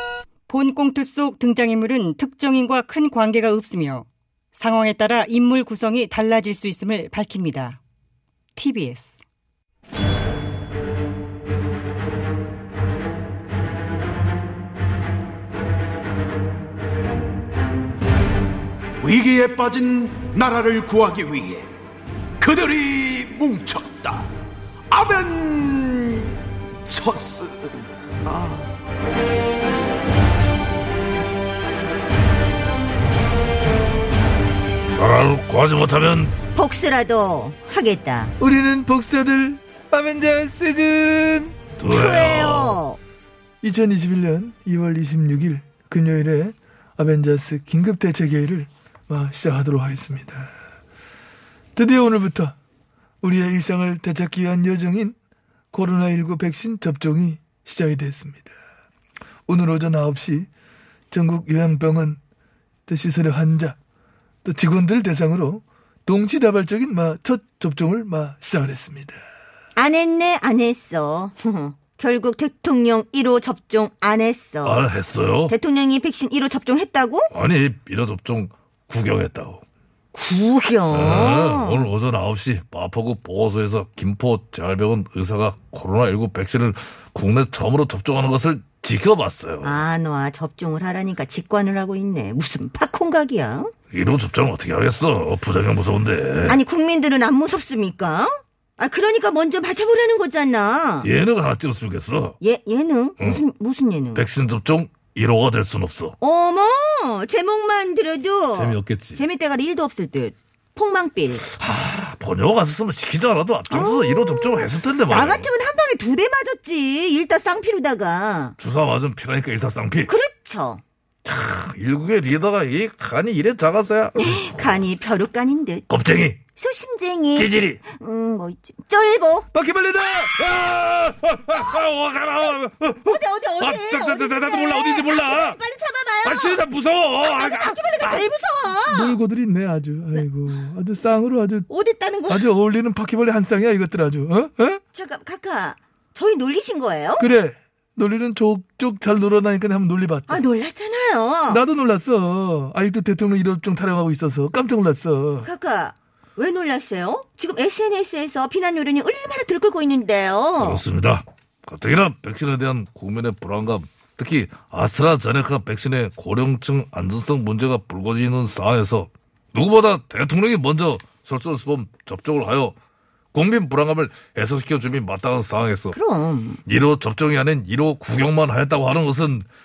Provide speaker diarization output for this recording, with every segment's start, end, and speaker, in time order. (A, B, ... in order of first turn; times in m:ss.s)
0:00.5-0:07.8 A
0:08.6-0:09.2 A
0:19.0-0:21.7 B
0:22.4-0:24.3 B
0:24.9-0:26.3 B
0:26.8-0:28.6 B
0:35.0-0:36.4 C
0:36.5-0:38.3 D
0:38.4-0:41.6 E
0:41.8-0:42.8 C
0:41.8-0:43.0 D
0:43.6-0:50.5 E
0:51.8-0:52.6 E
0:53.2-0:55.1 E
0:55.7-0:58.5 E
0:59.5-1:00.5 E
1:01.1-1:02.2 E
1:02.9-1:03.8 E
1:04.4-1:09.2 E
1:09.8-1:14.8 D
1:14.6-1:15.5 C
1:15.5-1:17.3 D
1:17.3-1:19.6 C
1:20.1-1:21.8 D
1:20.9-1:29.8 C
1:29.6-1:33.7 D
1:33.9-1:36.6 C
1:36.5-1:41.1 D
1:41.0-1:42.4 C
1:42.4-1:44.2 D
1:44.1-1:46.2 C
1:46.2-1:51.4 D
1:48.5-1:49.2 C
1:51.5-1:55.5 C
1:53.7-1:58.6 D
1:58.6-2:00.1 C
2:00.0-2:00.8 D
2:01.2-2:04.7 C
2:04.1-2:05.8 D
2:05.9-2:06.4 C
2:06.6-2:09.5 D
2:07.3-2:07.8 C
2:09.5-2:10.3 E
2:10.2-2:12.7 C
2:12.5-2:13.2 E
2:13.0-2:16.6 D
2:13.6-2:15.6 C
2:16.2-2:18.3 C
2:17.2-2:19.2 D
2:18.7-2:21.7 E
2:21.7-2:22.5 D
2:22.3-2:24.8 E
2:24.9-2:27.3 D
2:27.2-2:30.4 E
2:30.3-2:31.6 D
2:31.5-2:35.5 E
2:35.4-2:40.8 D
2:40.6-2:52.8 C
2:53.3-2:56.0 C
2:55.9-2:56.6 D
2:56.6-2:59.5 C